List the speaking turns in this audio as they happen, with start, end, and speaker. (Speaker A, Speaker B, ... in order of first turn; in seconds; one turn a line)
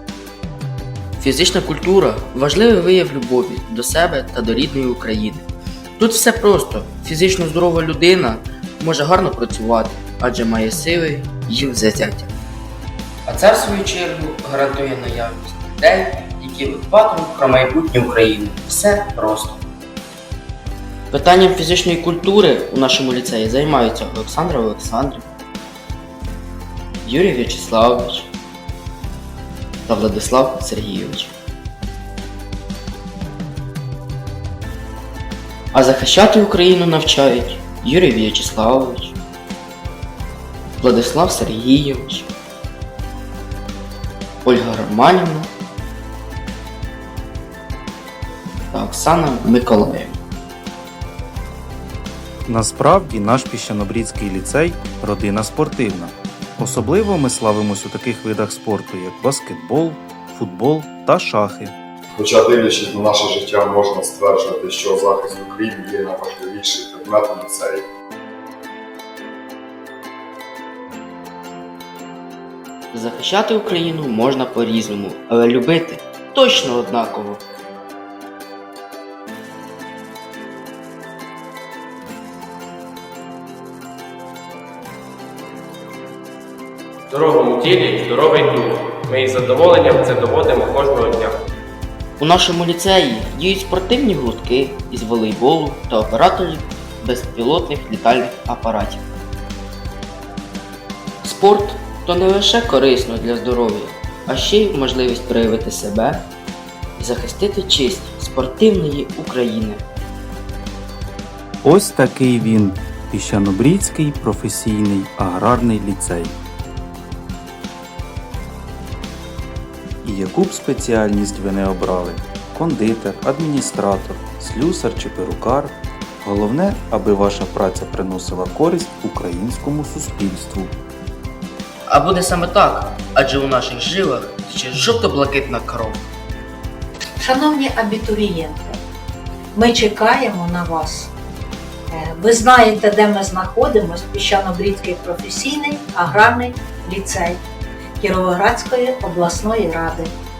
Speaker A: 1.2-5.5
Speaker A: 6.0-12.3
Speaker A: 13.2-19.6
Speaker A: 21.1-25.3
Speaker A: 27.0-28.3
Speaker A: 29.9-31.3
Speaker A: 35.7-39.2
Speaker A: 40.8-42.3
Speaker A: 44.4-45.5
Speaker A: 48.7-50.2
Speaker B: 52.5-61.7
Speaker C: 62.2-67.8
Speaker A: 72.9-77.4
Speaker D: 87.1-91.4
Speaker A: 92.2-99.0
Speaker A: 101.2-106.3
Speaker A: 107.0-109.8
Speaker B: 111.6-116.3
Speaker B: 120.0-130.7
Speaker A: 131.9-136.1
Speaker E: 137.2-138.8
Speaker E: 139.5-141.1
Speaker E: 141.9-147.4
Speaker E: 148.0-150.1